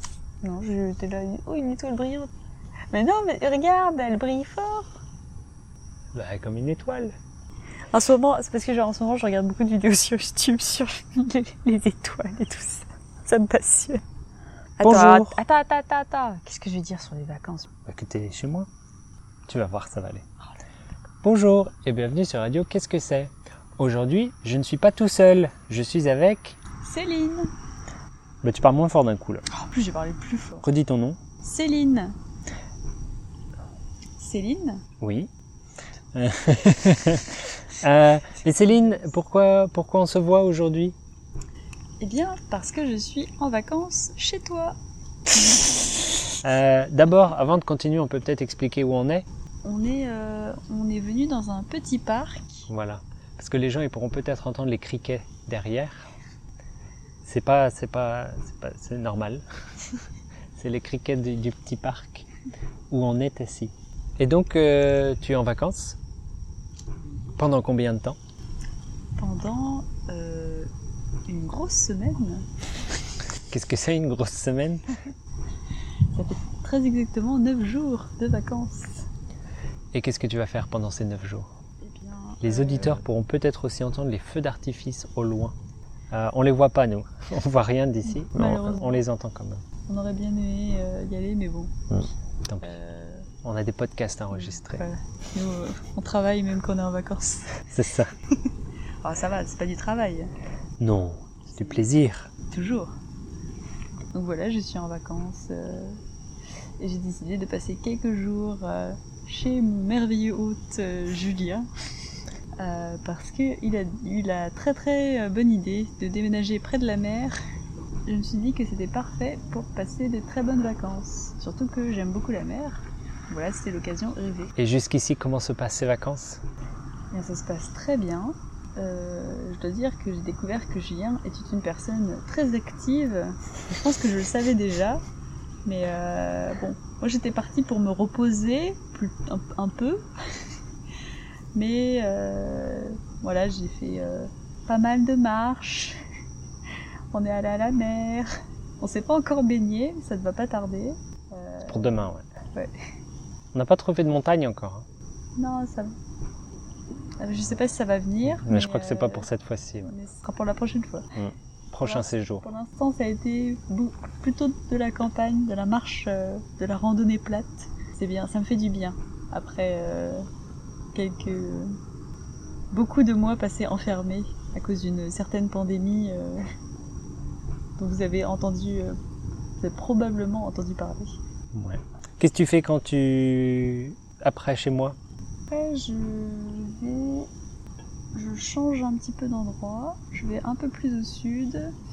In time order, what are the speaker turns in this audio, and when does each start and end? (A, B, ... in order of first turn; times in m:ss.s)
0:00.4-0:02.3 A
0:02.9-0:04.9 A
0:06.1-0:07.1 B
0:07.9-0:14.0 A
0:14.8-0:17.7 A
0:14.8-0:15.4 B
0:17.9-0:18.7 B
0:19.5-0:20.2 B
0:21.2-0:26.6 B
0:26.8-0:27.5 A
0:28.4-0:29.4 B
0:29.5-0:30.7 A
0:30.6-0:31.2 B
0:31.4-0:32.1 A
0:34.2-0:34.8 A
0:35.0-0:35.3 B
0:36.1-0:41.0 B
0:38.4-0:39.1 A
0:42.0-0:44.8 A
0:46.4-0:49.2 B
0:49.6-0:52.7 A
0:52.7-0:56.1 B
0:57.2-0:59.4 B
1:00.6-1:02.3 B
1:02.9-1:06.0 B
1:07.4-1:08.2 B
1:09.2-1:10.7 A
1:11.3-1:12.4 A
1:13.5-1:14.9 B
1:16.1-1:19.1 A
1:19.9-1:21.5 B
1:21.8-1:23.0 A
1:22.4-1:25.6 B
1:26.1-1:29.6 B
1:28.2-1:29.0 A
1:29.9-1:32.0 A
1:32.4-1:32.8 B
1:32.6-1:33.3 A
1:33.4-1:34.8 B
1:34.3-1:37.6 A
1:37.7-1:38.1 B
1:39.0-1:40.3 A
1:40.8-1:42.3 B
1:41.5-1:41.9 A
1:42.5-1:42.9 A
1:44.1-1:46.0 A
1:46.8-1:51.7 A
1:52.6-1:57.4 A
1:58.1-2:04.5 A
2:04.6-2:06.4 B
2:07.1-2:15.0 A
2:15.6-2:20.0 A
2:21.5-2:26.0 A
2:27.1-2:28.3 A
2:28.8-2:32.7 A
2:31.7-2:32.2 B
2:33.5-2:34.8 B
2:35.4-2:35.9 A
2:37.2-2:39.3 A
2:38.3-2:39.9 B
2:39.8-2:41.1 A
2:41.1-2:42.4 B
2:41.8-2:50.2 A
2:50.9-2:51.8 A
2:52.7-2:56.4 A
2:57.8-2:59.0 A
2:59.6-3:01.2 A
3:01.5-3:05.0 B
3:05.5-3:07.3 A
3:08.1-3:11.7 A